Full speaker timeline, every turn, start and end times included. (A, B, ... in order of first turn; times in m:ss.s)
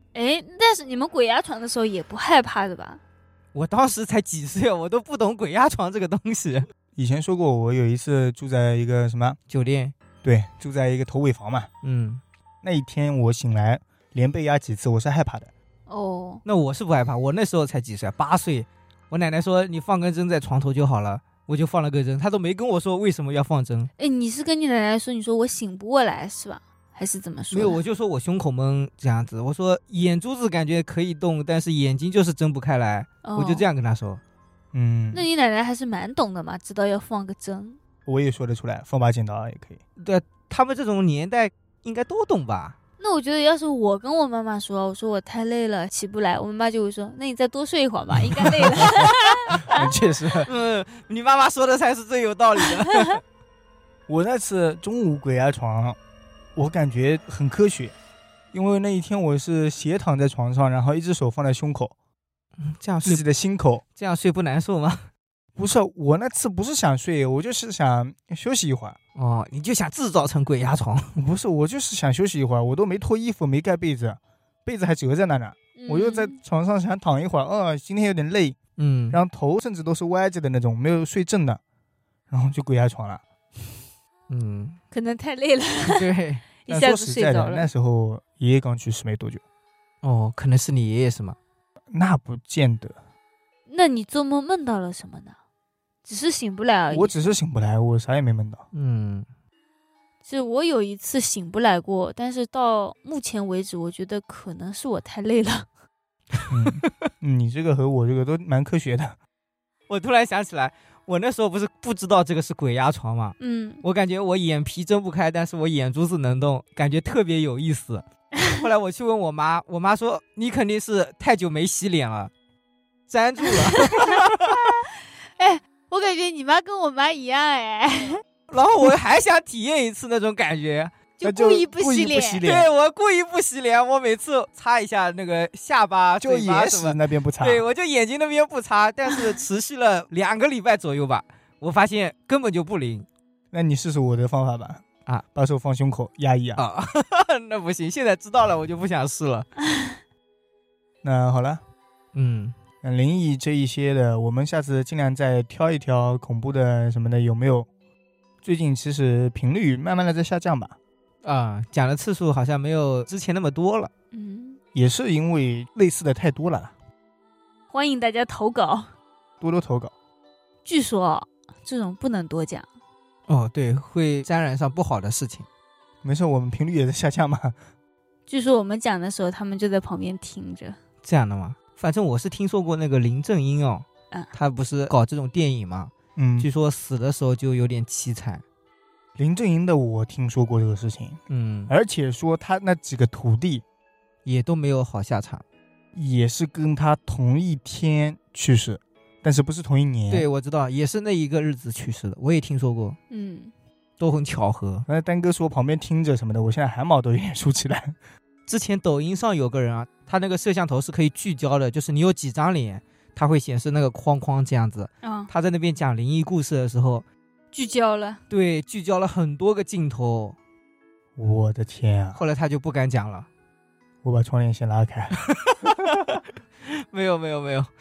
0:00.1-0:03.0 A
0:03.5-0:06.7 B
0:07.0-0:09.4 C
0:09.5-0:09.9 B
0:10.2-0:11.7 C
0:11.8-0:12.2 B
0:12.6-0:15.5 C
0:15.9-0:16.4 A
0:16.4-0:23.9 B
0:24.0-0:27.8 A
0:27.5-0:34.2 B
0:33.2-0:33.6 A
0:34.7-0:35.3 C
0:35.1-0:37.8 A
0:38.0-0:39.8 C
0:40.0-0:42.8 B
0:43.0-0:49.8 A
0:49.6-0:50.5 C
0:50.4-0:53.2 B
0:54.1-0:56.0 C
0:56.6-0:57.9 C
0:58.5-1:01.9 C
1:02.6-1:03.2 B
1:03.0-1:03.8 C
1:04.0-1:05.1 B
1:05.6-1:09.0 C
1:09.1-1:11.2 B
1:11.2-1:18.6 C
1:15.8-1:16.4 A
1:18.8-1:19.2 B
1:19.1-1:21.6 C
1:22.3-1:23.2 C
1:24.3-1:24.8 B
1:24.9-1:26.1 A
1:25.8-1:26.5 B
1:26.6-1:27.7 A
1:26.7-1:29.4 C
1:30.0-1:31.4 B
1:31.9-1:33.0 C
1:33.7-1:35.4 A
1:36.0-1:37.1 A
1:36.9-1:38.6 C
1:38.7-1:39.2 B
1:40.2-1:45.7 A
1:46.3-1:46.9 B
1:46.5-1:49.2 C
1:49.9-2:02.3 B
1:53.4-1:53.8 A
2:03.1-2:04.8 B
2:03.7-2:08.2 A
2:08.5-2:10.9 B
2:11.2-2:12.4 A
2:11.2-2:12.7 C
2:12.4-2:23.1 B
2:16.2-2:17.6 C
2:23.5-2:26.6 C
2:26.6-2:29.5 B
2:31.0-2:31.6 C
2:32.1-2:32.5 B
2:32.8-2:37.7 C
2:38.4-2:40.8 C
2:41.2-2:43.9 B
2:44.1-2:44.6 A
2:44.7-2:46.7 C
2:47.7-2:48.9 A
2:49.4-2:49.9 C
2:50.6-2:52.7 A
2:53.3-2:55.5 B
2:56.0-2:57.6 C
2:58.3-3:00.8 A
3:01.0-3:08.4 B
3:06.2-3:06.5 C
3:09.2-3:13.6 C
3:11.3-3:11.7 B
3:14.2-3:15.4 B
3:15.9-3:20.3 C
3:20.1-3:23.0 B
3:23.1-3:23.5 A
3:24.0-3:24.9 B
3:24.9-3:28.0 C
3:28.5-3:37.0 B
3:35.0-3:35.3 A
3:37.5-3:38.2 A
3:38.3-3:40.4 B
3:41.2-3:42.2 C
3:42.1-3:43.3 B
3:44.0-3:45.9 C
3:45.2-3:47.7 B